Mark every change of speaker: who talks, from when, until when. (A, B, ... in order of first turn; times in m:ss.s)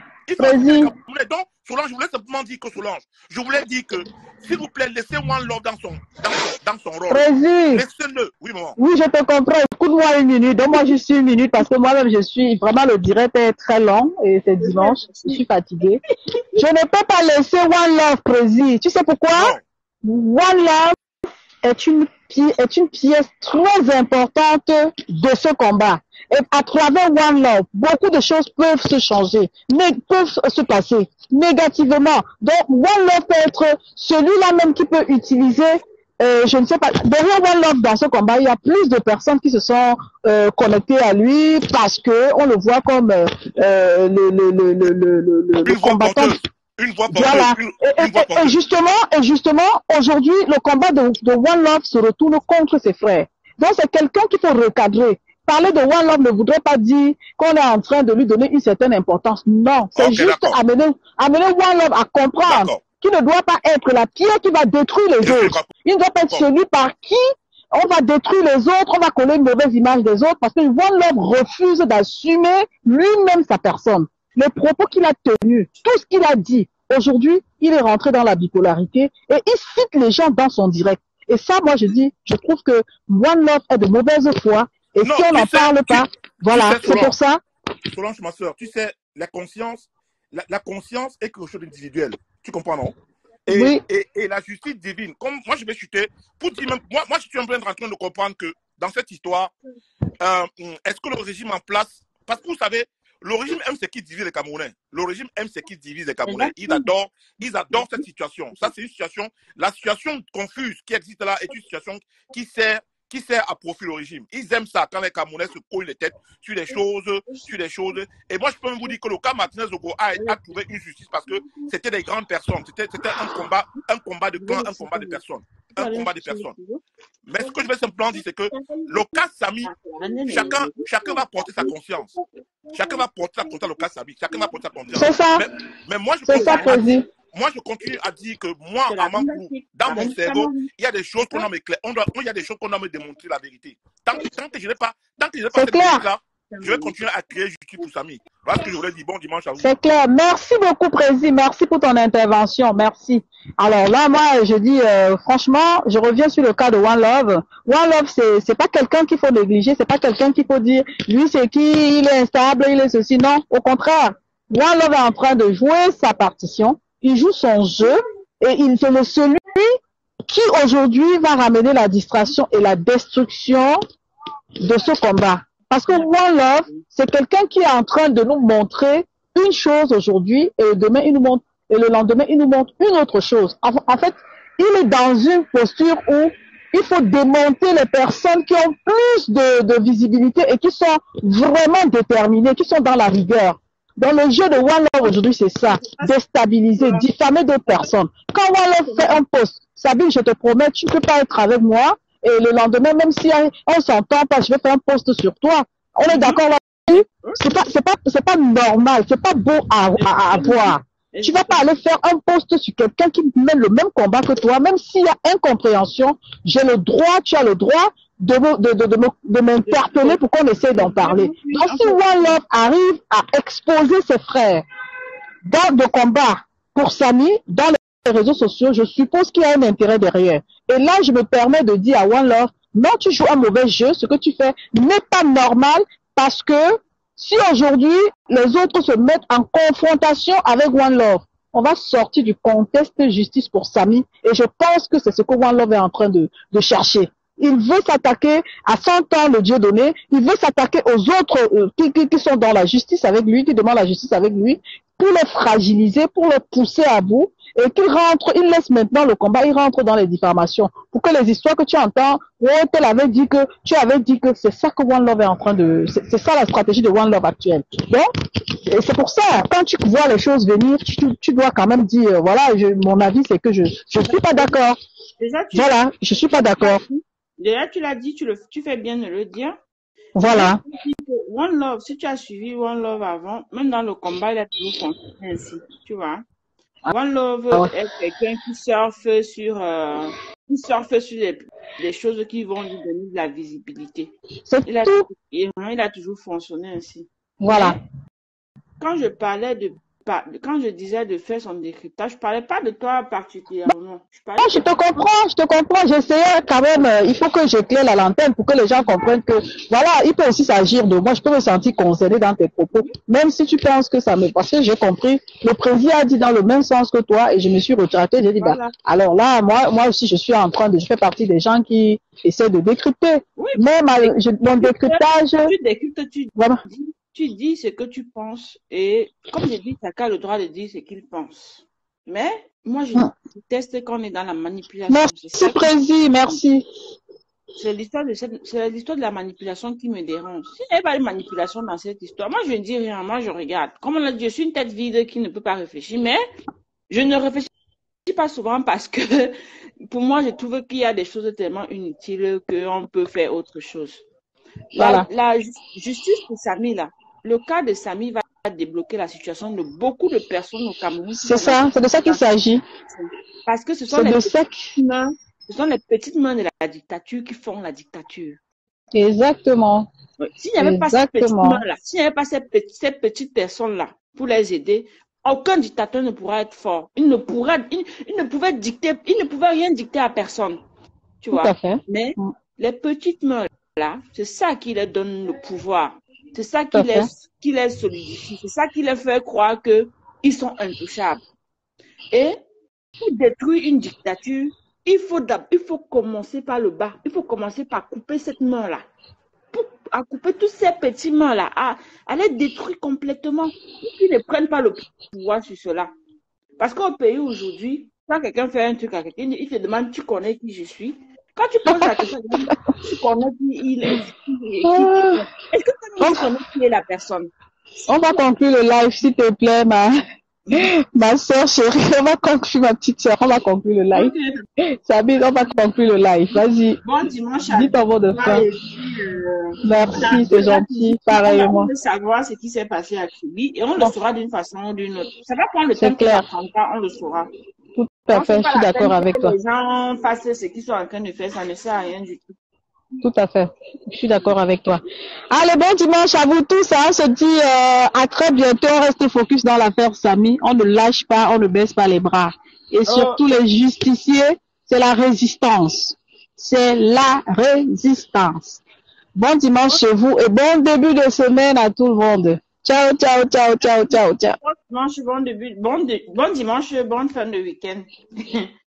0:00.3-0:08.8 A
0:00.4-0:00.9 B
0:07.1-0:07.8 B
0:08.8-0:16.0 B
0:14.6-0:15.4 C
0:16.6-0:21.0 B
0:19.3-0:19.6 A
0:21.6-0:46.4 B
0:45.6-0:48.6 A
0:47.1-1:27.4 B
1:00.0-1:00.6 A
1:02.5-1:02.8 A
1:05.2-1:05.7 A
1:25.0-1:27.1 A
1:27.9-1:33.0 A
1:33.5-1:39.5 A
1:33.5-1:33.8 B
1:40.2-2:06.6 A
1:46.2-1:46.9 C
2:01.4-2:01.7 C
2:04.4-2:05.2 C
2:05.8-2:06.8 C
2:07.3-2:09.7 A
2:08.5-2:13.8 C
2:10.3-2:12.1 A
2:12.7-2:29.7 A
2:15.0-2:15.5 B
2:16.3-2:17.1 B
2:16.3-2:16.9 C
2:18.9-2:20.7 C
2:25.5-2:26.1 B
2:26.5-2:26.9 C
2:29.6-2:53.8 B
2:54.6-3:44.6 B
3:15.0-3:16.1 C
3:16.8-3:17.1 C
3:18.8-3:19.2 C
3:26.1-3:26.4 C
3:26.9-3:27.4 C
3:30.0-3:31.6 C
3:39.6-3:40.2 C
3:40.7-3:42.4 C
3:45.4-4:28.1 B
4:28.7-4:34.8 B
4:34.0-4:34.6 C
4:35.2-4:35.8 C
4:35.5-4:36.8 B
4:36.3-4:39.6 C
4:40.2-4:40.6 B
4:40.2-4:46.2 C
4:46.9-4:54.1 C
4:54.5-4:55.1 B
4:54.6-4:57.8 C
4:57.4-4:57.8 B
4:58.8-5:04.6 C
5:04.4-5:25.5 B
5:18.4-5:18.8 C
5:23.4-5:35.8 C
5:26.4-5:26.6 B
5:34.9-5:36.6 B
5:37.6-5:46.2 C
5:46.9-5:47.5 C
5:48.1-5:54.0 C
5:54.7-5:55.1 B
5:54.8-6:02.3 C
6:01.2-6:02.6 B
6:02.9-6:08.4 C
6:03.9-6:04.7 B
6:08.9-6:09.9 B
6:10.2-6:20.6 C
6:10.6-6:11.6 B
6:21.2-6:31.2 C
6:21.3-6:22.3 B
6:26.7-6:27.1 B
6:32.1-6:32.4 C
6:33.0-6:38.9 C
6:39.5-6:45.9 C
6:46.6-6:57.3 C
6:51.7-6:52.8 B
6:54.6-6:55.2 B
6:56.0-6:56.3 B
6:57.9-7:00.0 B
7:00.5-7:04.1 B
7:03.9-7:04.4 C
7:04.8-7:06.8 B
7:06.8-7:17.3 C
7:07.4-7:08.5 B
7:09.6-7:11.7 B
7:15.8-7:16.3 B
7:17.8-7:19.4 B
7:18.1-7:22.3 C
7:23.0-7:38.6 B
7:32.9-7:33.2 C
7:39.2-7:44.4 B
7:44.4-7:48.5 C